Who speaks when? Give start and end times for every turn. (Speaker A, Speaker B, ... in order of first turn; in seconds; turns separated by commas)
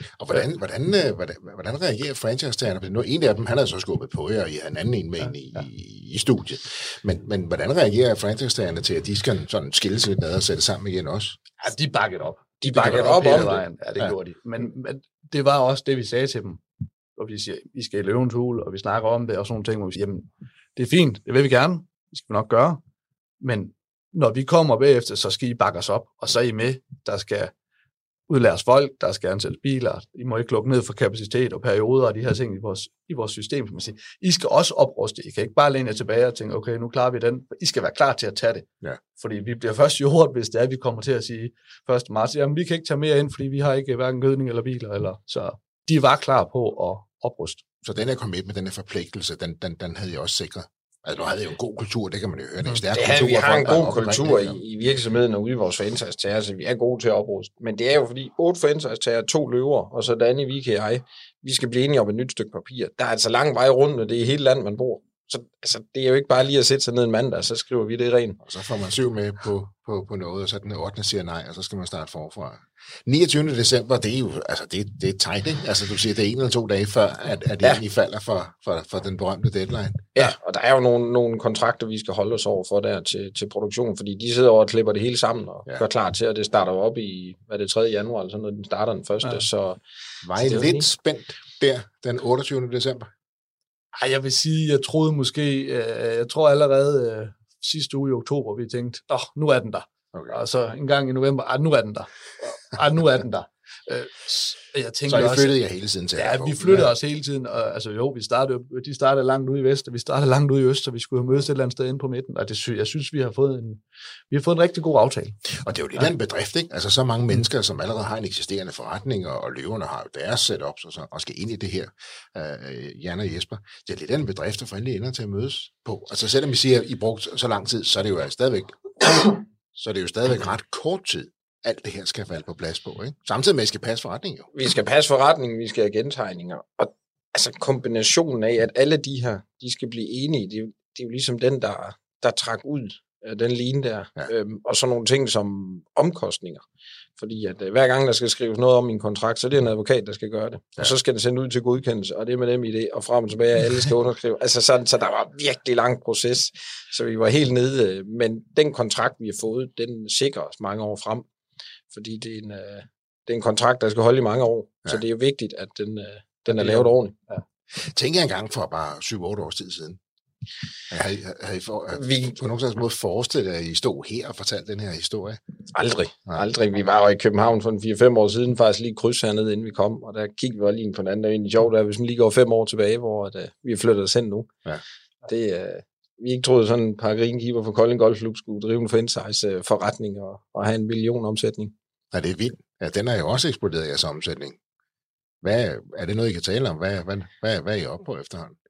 Speaker A: 0.2-11.4, Speaker B: 11.6-16.6, Speaker C: 12.6-13.6, Speaker B: 17.1-22.8, Speaker B: 23.4-27.5, Speaker B: 28.3-47.6, Speaker A: 47.8-54.6, Speaker C: 52.9-68.4, Speaker A: 68.4-80.3, Speaker C: 80.2-89.8, Speaker A: 90.2-93.1, Speaker C: 90.3-90.9, Speaker B: 94.0-105.5, Speaker A: 105.1-106.9, Speaker B: 106.2-115.4, Speaker A: 115.5-134.5, Speaker C: 134.5-146.6, Speaker C: 147.2-161.3, Speaker C: 161.9-167.2, Speaker B: 166.5-167.4, Speaker A: 167.7-170.0, Speaker A: 170.9-175.4, Speaker C: 171.9-172.4, Speaker C: 175.7-184.5, Speaker C: 185.2-191.7, Speaker A: 192.1-194.6, Speaker A: 195.4-198.6